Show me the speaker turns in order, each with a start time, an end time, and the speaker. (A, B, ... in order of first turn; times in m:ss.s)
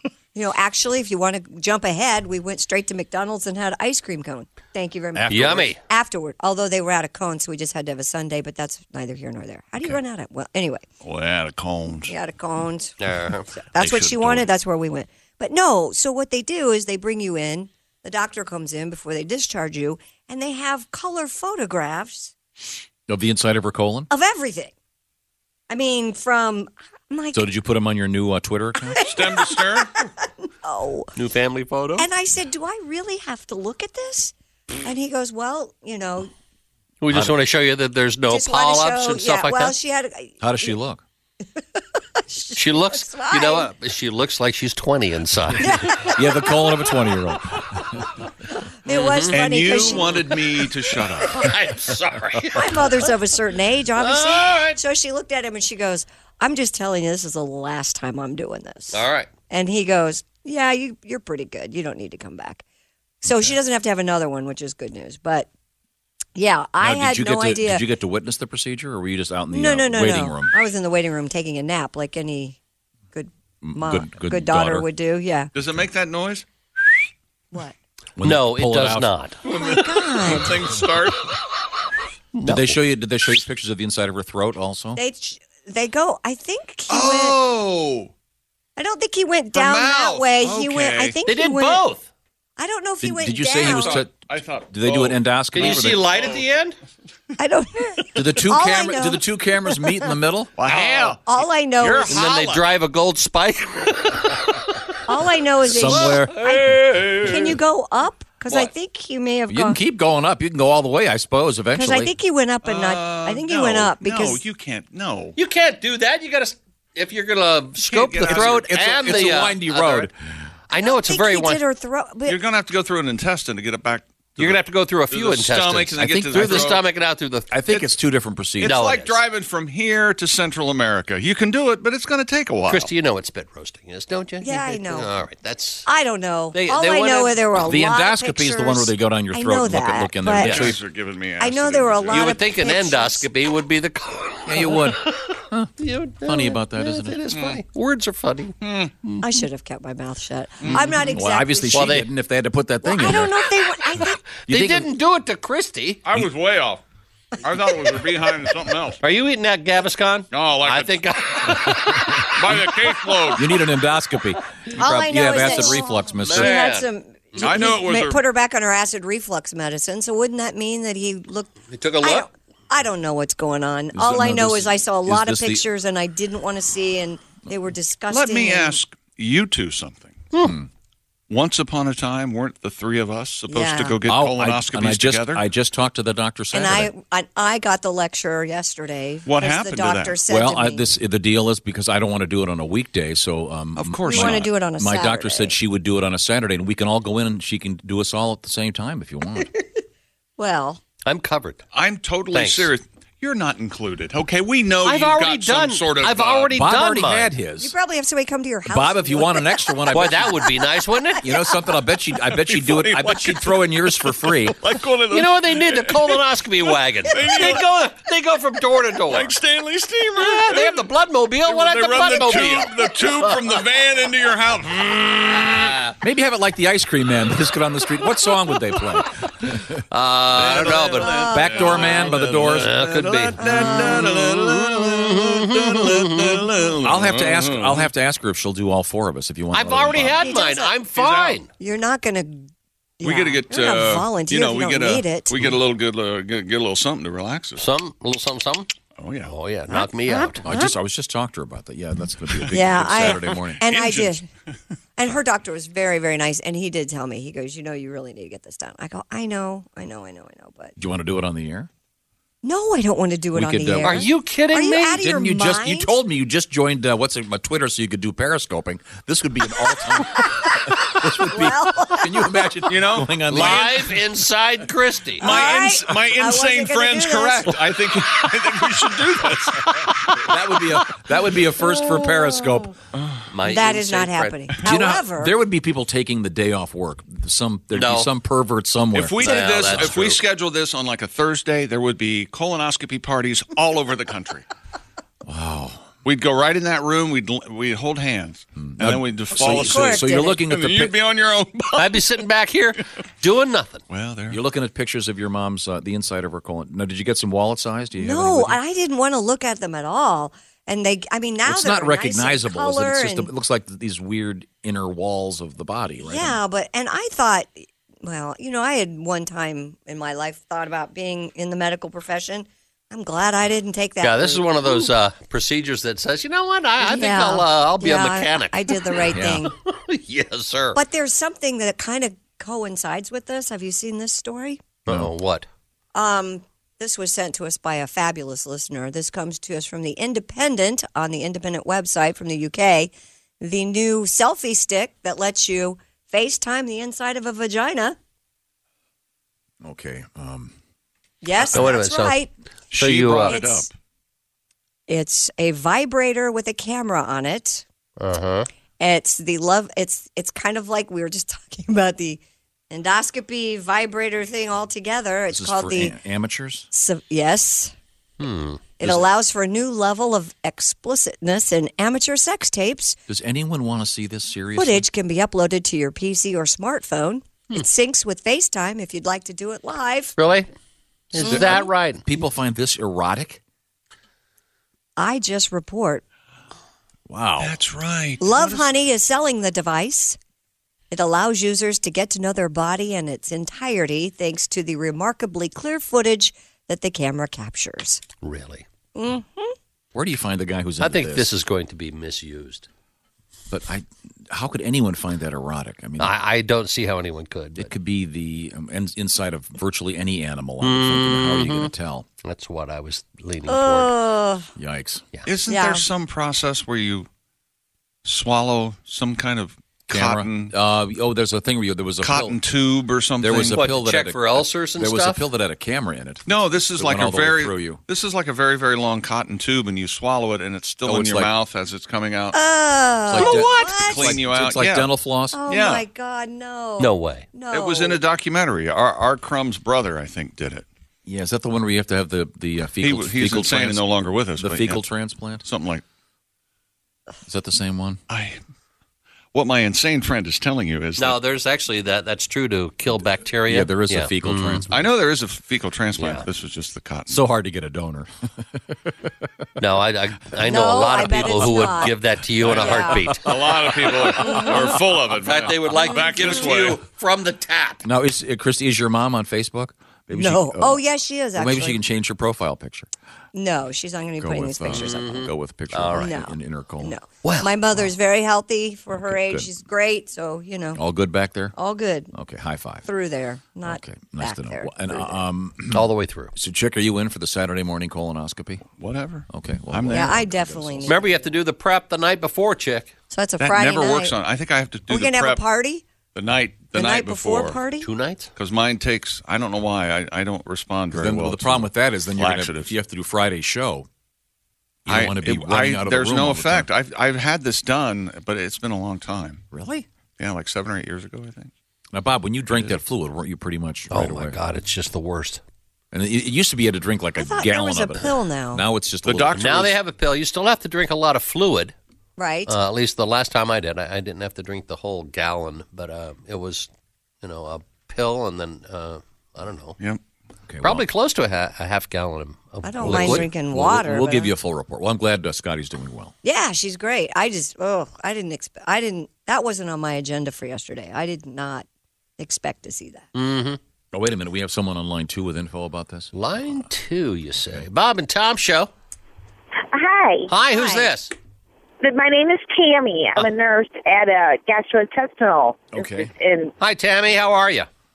0:00.3-0:10.8 A
0:05.1-0:05.8 B
0:11.0-0:12.2 C
0:12.1-0:13.0 A
0:13.0-0:13.5 B
0:13.5-0:22.3 A
0:13.7-0:14.5 C
0:23.1-0:24.1 D
0:24.1-0:24.7 A
0:25.7-0:27.5 A
0:27.3-0:29.0 D
0:29.0-0:29.9 C
0:29.0-0:30.1 A
0:30.6-0:31.1 A
0:31.1-0:32.1 B
0:32.0-0:36.3 A
0:37.0-0:39.8 B
0:37.1-0:37.4 D
0:38.3-0:40.7 A
0:40.4-0:41.0 D
0:42.2-0:43.7 A
0:42.5-0:45.8 B
0:45.6-0:46.8 A
0:46.0-0:48.0 D
0:48.8-0:51.0 A
0:48.9-0:49.4 B
0:49.3-0:51.6 C
0:51.3-0:53.1 B
0:52.5-1:02.6 A
0:54.0-0:54.8 B
0:58.9-0:59.3 B
1:03.2-1:05.5 A
1:06.4-1:07.8 A
1:06.8-1:10.5 D
1:09.5-1:12.6 A
1:13.1-1:15.5 A
1:13.6-1:14.9 D
1:15.5-1:17.0 C
1:18.2-1:19.1 D
1:18.2-1:19.4 B
1:19.4-1:21.3 C
1:19.5-1:20.7 A
1:22.3-1:22.8 B
1:22.4-1:25.0 D
1:25.0-1:27.4 A
1:26.9-1:28.1 C
1:28.8-1:31.8 A
1:29.5-1:31.2 C
1:31.2-1:32.1 B
1:32.6-1:34.1 A
1:33.0-1:34.1 D
1:33.6-1:36.4 C
1:34.7-1:36.0 D
1:35.5-1:36.8 B
1:37.4-1:39.9 A
1:38.1-1:40.5 D
1:40.6-1:42.7 C
1:40.7-1:41.2 B
1:41.2-1:42.3 A
1:42.0-1:44.8 B
1:45.1-1:49.8 A
1:45.6-1:46.4 D
1:45.8-1:47.6 B
1:49.5-1:52.1 D
1:51.7-1:54.4 A
1:52.6-1:55.3 C
1:55.4-2:00.1 B
1:57.8-1:59.3 C
1:58.2-2:00.1 D
2:00.7-2:01.6 B
2:00.8-2:02.4 A
2:02.2-2:06.8 C
2:04.4-2:07.5 B
2:06.0-2:06.8 D
2:07.5-2:08.8 D
2:08.6-2:12.9 C
2:08.6-2:09.2 B
2:12.7-2:15.9 B
2:14.4-2:15.1 A
2:15.8-2:20.8 A
2:16.5-2:17.4 B
2:17.6-2:20.8 D
2:20.4-2:20.7 B
2:20.4-2:22.4 C
2:21.4-2:23.3 A
2:22.1-2:28.6 B
2:24.4-2:27.2 D
2:27.3-2:27.6 C
2:28.6-2:28.9 C
2:29.2-2:32.1 A
2:30.6-2:31.0 C
2:30.7-2:33.4 D
2:31.7-2:32.1 B
2:32.8-2:34.2 A
2:34.5-2:34.9 D
2:34.5-2:36.0 B
2:36.0-2:36.8 C
2:37.4-2:39.0 C
2:39.0-2:42.6 B
2:40.3-2:41.1 C
2:42.2-2:43.5 C
2:43.4-2:46.5 D
2:44.8-2:58.8 A
2:45.5-2:47.4 B
2:47.4-2:48.2 C
2:51.7-2:52.3 B
2:53.9-2:55.6 D
2:58.1-3:00.2 C
3:00.3-3:00.6 B
3:01.3-3:05.4 C
3:03.5-3:04.0 A
3:04.0-3:06.9 D
3:06.5-3:10.9 A
3:09.2-3:10.2 C
3:10.3-3:19.5 D
3:13.8-3:14.5 C
3:14.1-3:15.5 A
3:20.4-3:20.8 A
3:21.0-3:21.6 B
3:21.7-3:26.6 C
3:22.3-3:22.7 B
3:24.8-3:27.3 B
3:26.5-3:27.7 D
3:27.6-3:29.7 A
3:28.7-3:30.4 D
3:29.9-3:31.2 B
3:31.2-3:34.6 D
3:32.4-3:37.7 C
3:35.1-3:39.3 B
3:39.1-3:40.9 C
3:40.2-3:43.6 B
3:41.4-3:45.8 C
3:46.0-3:49.8 D
3:49.9-3:51.2 B
3:50.3-3:57.9 C
3:51.0-3:52.0 A
3:51.2-3:52.7 D
3:52.4-3:56.4 B
3:53.4-3:54.1 A
3:56.8-4:00.2 D
3:59.5-4:01.5 B
4:00.2-4:00.7 A
4:00.9-4:01.4 C
4:01.6-4:02.5 A
4:03.0-4:05.4 A
4:03.0-4:07.6 C
4:07.6-4:08.7 B
4:09.0-4:09.3 C
4:09.2-4:10.4 B
4:09.7-4:10.8 A
4:10.4-4:13.6 D
4:12.3-4:14.2 C
4:12.5-4:14.2 A
4:15.0-4:20.7 A
4:20.8-4:21.7 D
4:22.4-4:26.0 A
4:23.3-4:24.1 D
4:23.8-4:25.2 B
4:25.1-4:33.9 D
4:31.0-4:32.4 A
4:32.7-4:33.9 C
4:33.3-4:35.3 B
4:35.2-4:37.6 A
4:35.2-4:40.3 C
4:40.2-4:42.8 D
4:43.3-4:44.5 B
4:43.4-4:45.3 A
4:44.6-4:49.2 D
4:47.7-4:48.1 B
4:48.9-4:54.4 C
4:49.2-4:50.2 B
4:55.2-4:55.9 D
4:56.0-5:02.0 C
4:58.6-5:01.0 D
4:59.3-5:00.4 A
5:01.8-5:03.8 B
5:03.9-5:04.4 C
5:04.3-5:08.6 D
5:08.0-5:13.3 A
5:11.4-5:16.4 D
5:16.0-5:24.9 A
5:24.0-5:30.8 B
5:26.8-5:29.5 A
5:29.1-5:29.4 D
5:30.7-5:34.6 A
5:34.8-5:35.5 B
5:35.9-5:48.0 A
5:49.6-5:50.5 D
5:51.2-5:52.3 A
5:51.4-5:52.2 B
5:52.7-5:53.7 C
5:52.8-5:53.4 B
5:53.2-5:53.7 A
5:54.9-5:57.6 A
5:58.0-5:58.5 B
5:58.8-6:02.2 A
6:02.7-6:06.0 A
6:05.3-6:06.7 D
6:06.7-6:07.7 A
6:08.2-6:08.6 B
6:08.8-6:13.0 A
6:08.8-6:09.1 D
6:13.1-6:14.8 D
6:14.5-6:20.1 A
6:20.2-6:20.5 B
6:21.1-6:22.0 B
6:21.2-6:23.4 D
6:21.2-6:21.6 A
6:25.0-6:26.0 A
6:27.1-6:27.6 D
6:27.4-6:28.7 C
6:28.2-6:30.2 A
6:30.9-6:38.0 A
6:38.2-6:38.6 B
6:38.9-6:39.5 A
6:39.9-6:41.3 D
6:40.8-6:42.7 B
6:43.5-6:46.2 D
6:46.0-6:47.7 B
6:47.6-6:52.1 D
6:50.6-6:54.0 B
6:53.5-6:54.5 A
6:54.6-6:55.0 D
6:55.2-6:57.1 C
6:55.5-6:55.9 A
6:58.0-7:00.5 C
6:59.9-7:02.4 D
7:02.0-7:03.6 C
7:03.2-7:06.2 D
7:03.5-7:05.2 B
7:06.3-7:12.4 C
7:06.8-7:07.8 D
7:10.8-7:11.3 D
7:12.3-7:14.2 A
7:13.1-7:15.4 D
7:13.1-7:13.8 B
7:13.8-7:14.9 C
7:15.3-7:18.0 A
7:15.5-7:15.9 C
7:16.8-7:17.3 B
7:17.5-7:20.7 C
7:21.0-7:25.4 D
7:22.8-7:24.8 C
7:25.4-7:25.8 C
7:27.3-7:28.0 D
7:28.1-7:28.4 C
7:29.3-7:31.2 C
7:31.0-7:34.7 B
7:33.5-7:34.8 D
7:34.7-7:37.2 C
7:36.0-7:36.2 B
7:37.1-7:39.3 D
7:39.6-7:43.3 B
7:40.4-7:41.9 A
7:41.3-7:41.9 D
7:42.4-7:46.8 C
7:42.6-7:43.0 A
7:43.3-7:44.7 D
7:44.1-7:44.5 B
7:44.2-7:44.6 A
7:45.2-7:47.8 B
7:45.8-7:46.4 A
7:47.8-7:52.9 D
7:50.1-7:51.8 A
7:53.3-7:55.3 A
7:54.2-7:56.9 D
7:54.7-7:56.2 B
7:56.0-8:00.8 A
7:57.2-7:57.5 B
7:58.9-7:59.5 D
8:00.8-8:01.6 D
8:01.6-8:02.1 A
8:02.1-8:02.9 D
8:02.8-8:04.7 A
8:03.6-8:08.6 D
8:05.7-8:06.3 B
8:08.8-8:10.7 C
8:09.3-8:10.9 D
8:09.9-8:11.1 A
8:10.8-8:12.9 B
8:13.1-8:14.2 A
8:13.4-8:15.5 C
8:14.9-8:15.8 A
8:16.1-8:17.6 C
8:16.7-8:17.9 A
8:17.8-8:18.3 B
8:18.4-8:22.7 C
8:20.9-8:23.9 D
8:24.8-8:26.7 D
8:24.9-8:29.4 C
8:29.5-8:29.8 D
8:30.2-8:31.5 C
8:31.9-8:34.4 D
8:32.5-8:32.8 C
8:33.9-8:35.4 B
8:35.9-8:39.6 D
8:37.2-8:38.6 A
8:39.0-8:39.8 C
8:39.3-8:41.7 B
8:42.2-8:42.5 A
8:42.4-8:46.7 B
8:47.2-8:49.8 B
8:50.5-8:50.8 D
8:50.6-8:53.3 B
8:52.6-8:54.3 A
8:52.8-8:56.1 D
8:56.2-9:01.6 A
9:02.2-9:03.1 A
9:03.1-9:03.6 B
9:03.9-9:06.6 D
9:06.1-9:08.7 B
9:09.7-9:10.3 E
9:10.3-9:11.1 B
9:10.5-9:10.9 A
9:11.8-9:16.5 E
9:15.7-9:16.1 D
9:16.6-9:17.7 B